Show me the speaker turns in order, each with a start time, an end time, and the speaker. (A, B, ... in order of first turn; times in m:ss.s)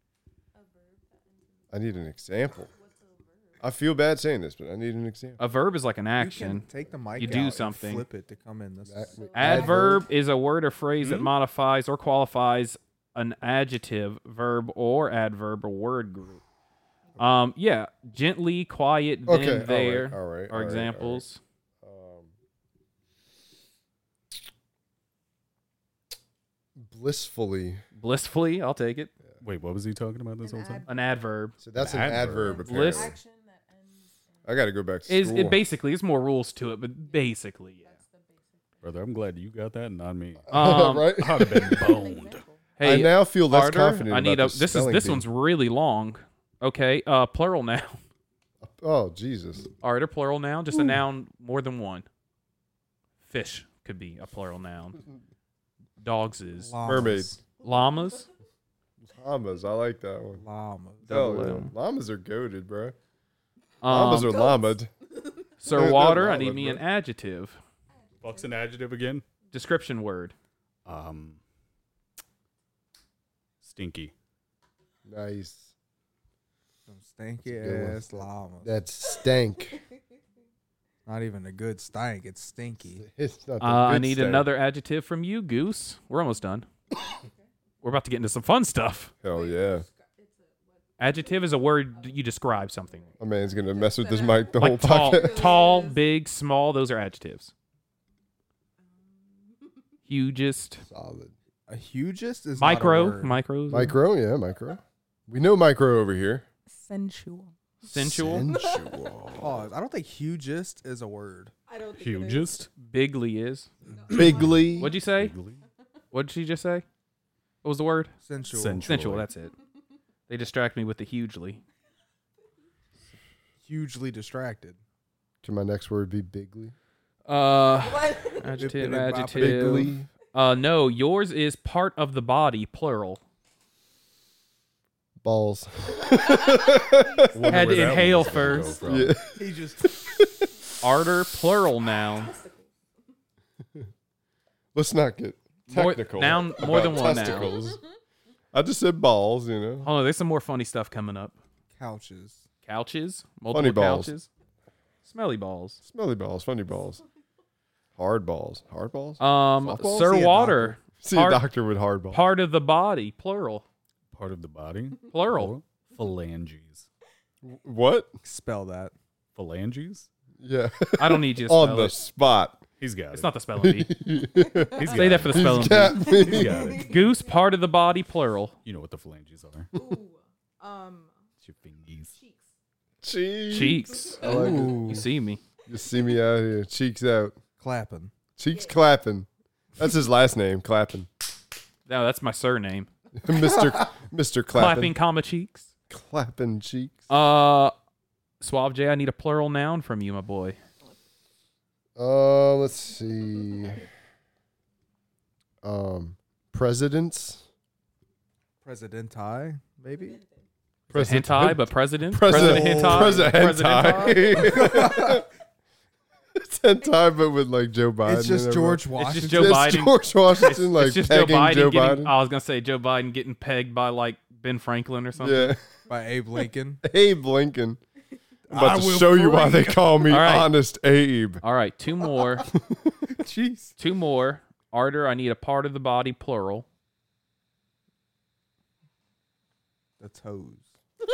0:00.5-0:03.7 A
0:01.7-0:02.7 B
0:03.6-0:05.4 B
0:05.4-0:06.7 C
0:06.2-0:09.8 D
0:07.2-0:08.1 C
0:08.9-0:10.0 B
0:09.0-0:10.0 A
0:09.4-0:16.4 C
0:11.0-0:11.3 E
0:17.1-0:17.4 A
0:17.2-0:21.4 C
0:19.3-0:21.2 B
0:21.8-0:22.3 B
0:26.8-0:27.8 B
0:28.0-0:29.1 C
0:29.4-0:30.8 E
0:30.4-0:31.1 A
0:30.9-0:31.6 C
0:31.6-0:33.2 B
0:31.8-0:32.6 E
0:32.1-0:34.6 A
0:32.6-0:33.2 C
0:34.4-0:35.6 B
0:35.1-0:37.8 C
0:37.0-0:38.8 A
0:38.8-0:42.4 E
0:40.5-0:41.9 B
0:40.5-0:41.1 C
0:41.7-0:42.8 A
0:42.8-0:48.0 C
0:42.8-0:45.2 B
0:48.6-0:49.7 B
0:49.8-0:52.1 C
0:53.2-0:55.0 C
0:56.0-0:56.7 C
0:56.6-0:57.4 D
0:56.8-0:57.4 B
0:57.6-0:58.2 C
0:57.6-0:58.3 A
0:59.0-1:00.4 B
1:00.4-1:01.1 D
1:01.0-1:01.7 C
1:01.1-1:03.0 B
1:03.8-1:04.5 C
1:03.9-1:04.9 B
1:05.6-1:07.6 C
1:05.7-1:06.8 B
1:07.9-1:08.7 A
1:08.2-1:09.2 E
1:09.5-1:10.3 C
1:10.9-1:11.4 E
1:13.6-1:14.1 E
1:15.1-1:15.7 B
1:16.9-1:18.8 D
1:17.5-1:19.8 B
1:21.1-1:23.0 D
1:22.8-1:24.5 B
1:23.6-1:26.7 C
1:27.0-1:27.5 A
1:27.8-1:29.1 C
1:29.2-1:29.9 B
1:29.2-1:36.1 A
1:31.0-1:33.1 C
1:33.2-1:35.6 B
1:34.6-1:37.5 C
1:38.8-1:39.8 A
1:40.1-1:40.8 C
1:40.9-1:41.3 B
1:41.7-1:43.3 D
1:42.6-1:44.0 C
1:43.7-1:46.4 B
1:46.7-1:47.5 A
1:47.8-1:49.7 B
1:47.9-1:48.5 C
1:48.5-1:49.3 A
1:49.4-1:51.5 D
1:51.7-1:52.7 A
1:51.9-1:52.7 E
1:52.8-1:53.7 C
1:53.8-1:54.8 A
1:54.1-1:54.9 B
1:54.1-1:55.6 E
1:54.8-1:55.3 C
1:56.1-1:56.8 C
1:57.6-1:58.1 C
1:58.2-1:58.9 D
1:58.5-1:59.3 E
1:58.9-1:59.5 C
2:00.3-2:01.6 C
2:03.6-2:04.8 D
2:05.4-2:06.7 B
2:07.3-2:13.2 C
2:07.8-2:08.7 A
2:08.6-2:09.9 D
2:09.4-2:10.1 B
2:15.2-2:17.7 B
2:17.3-2:19.2 E
2:17.5-2:18.8 C
2:18.8-2:20.5 B
2:19.4-2:19.9 D
2:20.8-2:22.3 C
2:22.1-2:22.7 A
2:24.7-2:27.8 B
2:25.7-2:27.5 C
2:26.9-2:27.8 A
2:28.5-2:29.9 B
2:29.8-2:31.4 C
2:31.8-2:32.4 D
2:32.6-2:34.3 C
2:33.5-2:34.1 B
2:35.0-2:35.8 C
2:35.8-2:37.0 B
2:38.0-2:39.2 B
2:39.2-2:41.4 C
2:39.6-2:40.8 D
2:41.0-2:42.3 B
2:42.1-2:43.6 C
2:44.1-2:46.9 E
2:45.1-2:45.6 C
2:47.4-2:48.1 B
2:48.2-2:48.9 D
2:49.4-2:50.1 E
2:50.4-2:52.6 B
2:51.0-2:52.0 C
2:52.8-2:53.3 E
2:53.1-2:53.9 C
2:53.6-2:56.9 B
2:54.4-2:54.9 A
2:54.8-2:57.0 E
2:54.9-2:58.6 C
2:56.0-2:57.4 A
2:58.6-2:59.7 E
2:59.7-3:01.2 A
3:01.4-3:02.1 E
3:02.1-3:02.5 A
3:03.0-3:05.1 B
3:03.5-3:05.4 C
3:03.9-3:04.7 A
3:04.2-3:04.9 D
3:05.7-3:07.4 B
3:07.6-3:08.1 D
3:08.4-3:11.1 B
3:08.5-3:08.8 A
3:11.9-3:12.9 C
3:13.2-3:15.0 B
3:14.5-3:15.7 C
3:15.9-3:17.0 B
3:17.1-3:17.7 C
3:18.4-3:20.6 C
3:22.0-3:23.8 B
3:25.6-3:27.4 B
3:28.6-3:30.2 D
3:29.9-3:30.5 A
3:30.9-3:35.3 B
3:30.9-3:34.4 C
3:32.2-3:33.3 D
3:34.3-3:35.3 D
3:36.4-3:42.2 B
3:38.0-3:39.7 D
3:39.0-3:45.6 C
3:45.2-3:45.6 B
3:45.9-3:46.8 D
3:46.8-3:47.8 B
3:48.5-3:50.0 D
3:48.5-3:51.4 B
3:50.1-3:50.5 C
3:51.4-3:52.5 C
3:52.5-3:53.0 B
3:53.1-3:53.8 D
3:53.8-3:56.7 C
4:00.0-4:00.7 D